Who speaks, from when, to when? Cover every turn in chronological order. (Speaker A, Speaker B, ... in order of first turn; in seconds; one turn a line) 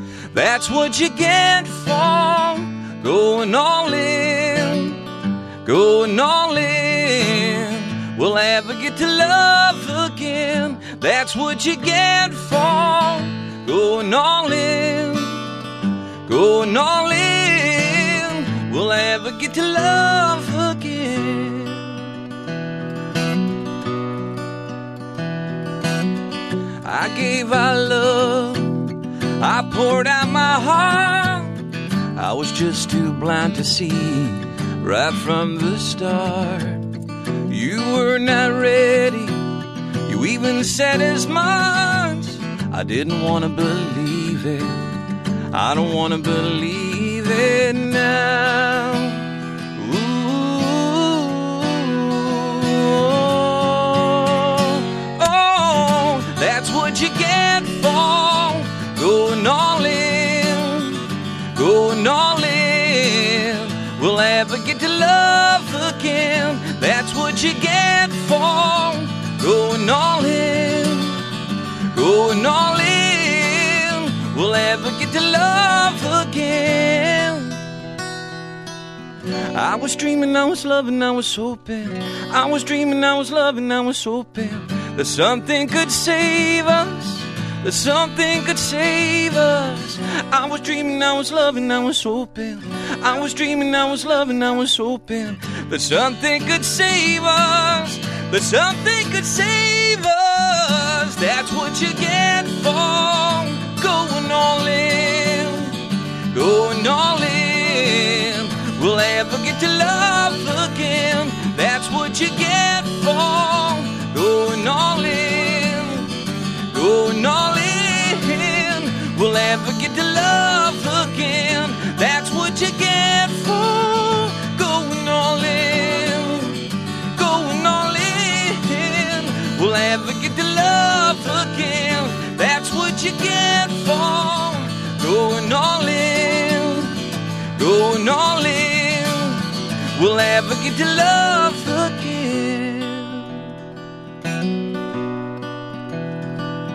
Speaker A: 0.3-5.0
Speaker A: 5.6-15.4
Speaker A: 16.3-22.0
Speaker A: 26.8-31.6
Speaker A: 32.1-36.9
Speaker A: 37.5-39.5
Speaker A: 40.1-44.8
Speaker A: 45.5-71.2
Speaker A: 71.9-77.6
Speaker A: 79.5-105.7
Speaker A: 106.3-116.1
Speaker A: 116.7-137.0
Speaker A: 137.6-143.3